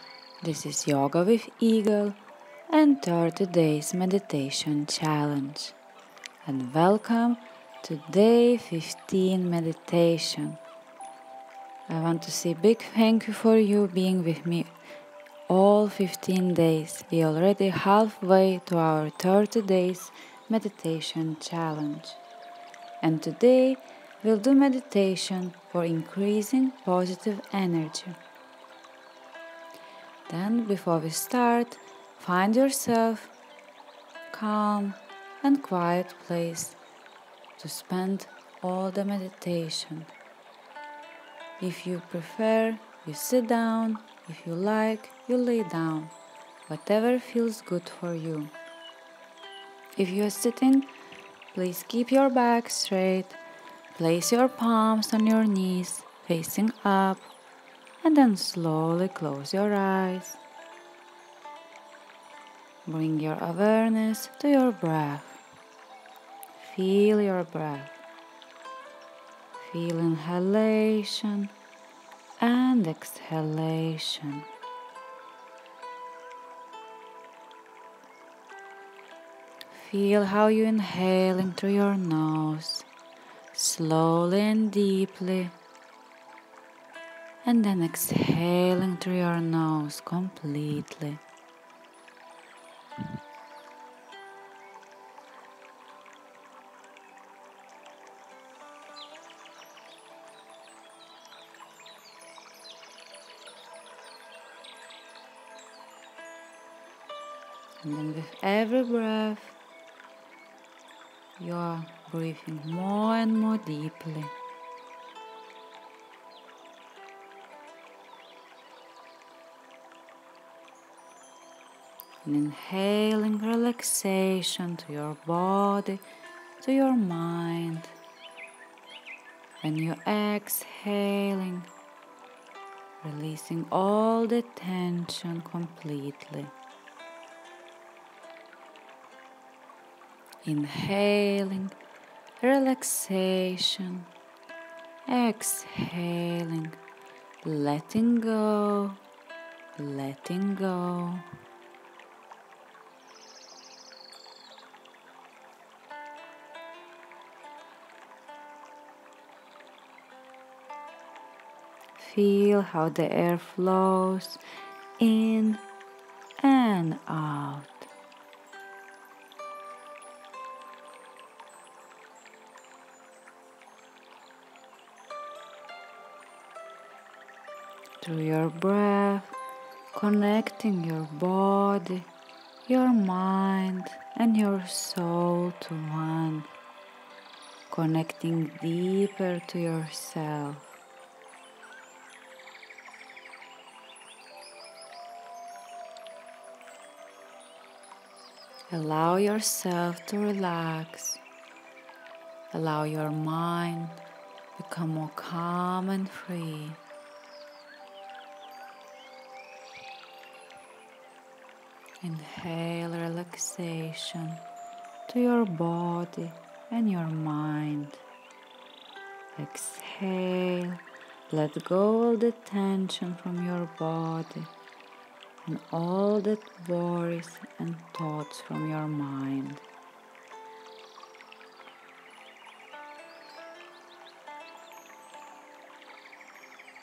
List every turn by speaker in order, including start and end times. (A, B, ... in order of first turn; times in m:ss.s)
0:00.4-0:02.2 A
0:02.7-0:05.8 A
0:06.4-0:10.6 A
0:11.9-0:14.7 A
0:15.5-0:22.2 A
0:23.0-0:28.2 A
0:30.3-0:33.3 A
0:34.3-0:36.8 A
0:37.6-0:40.1 A
0:41.6-0:46.1 A
0:46.7-0:48.5 A
0:50.0-0:50.9 A
0:51.5-0:53.4 A
0:53.9-0:57.3 A
0:58.0-1:00.4 A
1:02.9-1:05.4 A
1:06.6-1:08.0 A
1:09.6-1:11.5 A
1:12.4-1:14.5 A
1:19.7-1:22.9 A
1:23.5-1:25.6 A
1:27.4-1:31.2 A
1:47.8-1:49.6 A
1:51.4-1:54.3 A
2:02.2-2:06.0 A
2:06.6-2:08.0 A
2:09.6-2:11.7 A
2:13.0-2:16.5 A
2:20.4-2:21.8 A
2:22.4-2:24.1 A
2:25.1-2:26.8 A
2:27.4-2:29.0 A
2:29.8-2:31.3 A
2:42.0-2:44.4 A
2:45.0-2:45.6 A
2:46.4-2:47.9 A
2:58.0-2:59.4 A
2:59.9-3:02.1 A
3:02.7-3:06.5 A
3:07.7-3:10.8 A
3:18.7-3:21.2 A
3:22.5-3:24.0 A
3:24.6-3:26.8 A
3:32.0-3:34.4 A
3:35.1-3:38.0 A
3:39.4-3:44.5 A
3:45.4-3:49.6 A